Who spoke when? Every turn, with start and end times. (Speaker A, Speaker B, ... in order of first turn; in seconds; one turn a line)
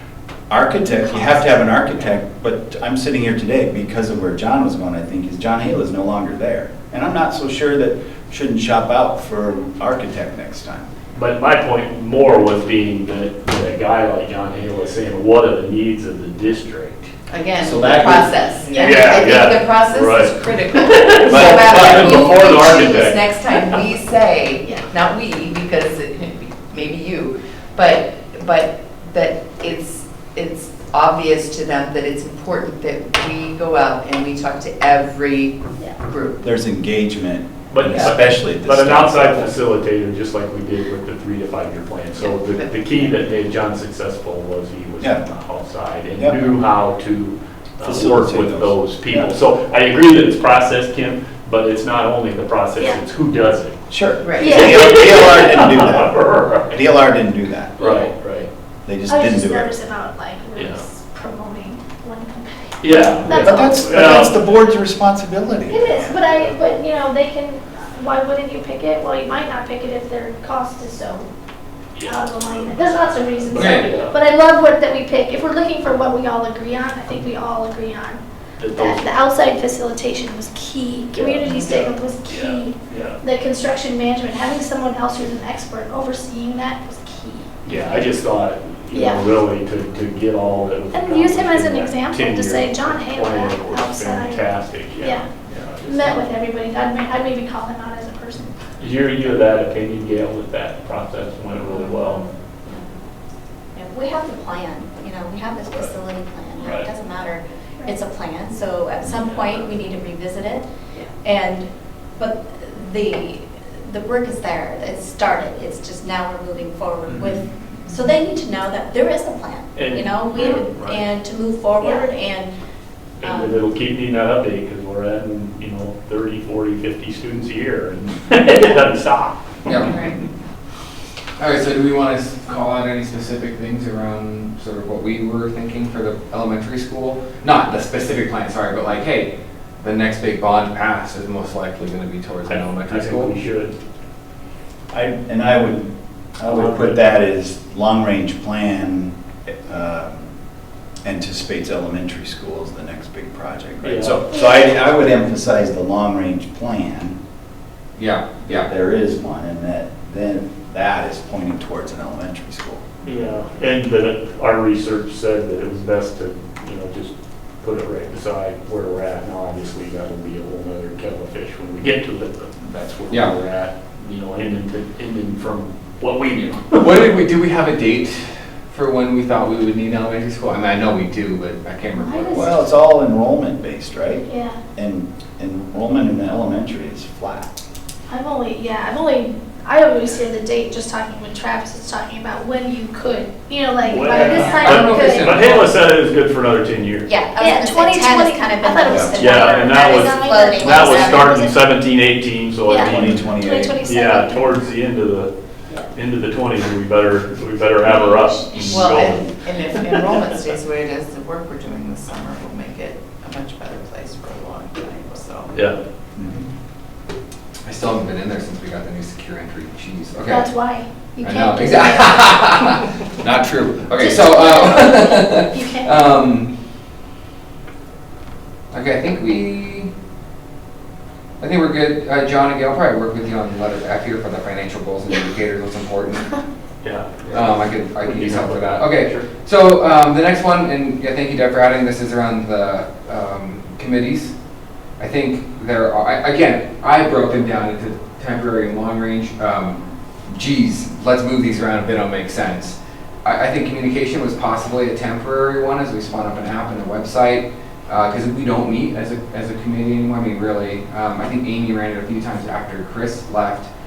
Speaker A: 0.5-10.9
Speaker B: 11.1-17.1
Speaker C: 17.3-36.4
Speaker A: 17.6-18.3
Speaker B: 18.6-23.8
Speaker A: 21.3-22.3
Speaker D: 24.6-24.9
Speaker A: 36.4-39.5
Speaker B: 37.7-53.8
Speaker C: 42.2-43.1
Speaker A: 46.2-46.5
Speaker A: 47.8-49.3
Speaker A: 53.9-58.0
Speaker C: 54.2-54.7
Speaker B: 54.4-56.8
Speaker D: 54.4-55.0
Speaker B: 57.8-58.5
Speaker A: 58.9-59.7
Speaker D: 59.1-64.3
Speaker B: 60.6-60.9
Speaker B: 62.8-64.4
Speaker A: 63.3-66.2
Speaker D: 65.7-71.3
Speaker B: 66.2-66.5
Speaker B: 72.0-74.2
Speaker D: 72.0-87.8
Speaker E: 73.5-73.9
Speaker B: 78.6-79.1
Speaker B: 81.1-83.2
Speaker B: 87.6-96.3
Speaker D: 88.9-89.3
Speaker D: 90.9-95.3
Speaker D: 95.8-98.5
Speaker B: 98.8-102.3
Speaker F: 101.7-102.9
Speaker F: 103.8-122.5
Speaker B: 106.6-106.9
Speaker B: 109.2-109.7
Speaker B: 117.1-117.4
Speaker B: 119.8-121.0
Speaker B: 123.2-130.2
Speaker F: 123.2-123.6
Speaker E: 129.7-129.9
Speaker C: 129.9-130.2
Speaker E: 131.4-143.3
Speaker B: 142.5-143.8
Speaker A: 144.9-150.2
Speaker B: 146.4-147.0
Speaker A: 151.0-157.2
Speaker B: 153.8-154.2
Speaker E: 158.0-158.7
Speaker A: 158.5-162.8
Speaker B: 163.0-177.2
Speaker E: 173.1-173.4
Speaker E: 176.8-182.6
Speaker D: 181.9-182.5
Speaker A: 182.3-187.5
Speaker D: 184.3-184.6
Speaker D: 188.1-195.4
Speaker B: 193.8-197.1
Speaker E: 194.1-195.7
Speaker F: 197.1-201.6
Speaker D: 197.4-201.4
Speaker A: 198.9-199.2
Speaker B: 199.2-205.3
Speaker D: 202.7-204.7
Speaker A: 202.8-203.8
Speaker B: 205.9-210.1
Speaker F: 207.8-209.0
Speaker C: 208.7-215.6
Speaker B: 215.5-215.8
Speaker E: 217.6-220.7
Speaker D: 220.3-222.8
Speaker E: 221.2-226.5
Speaker D: 223.9-226.0
Speaker E: 228.7-229.9
Speaker E: 231.4-236.4
Speaker B: 236.8-239.3
Speaker E: 237.3-244.3
Speaker E: 245.0-263.7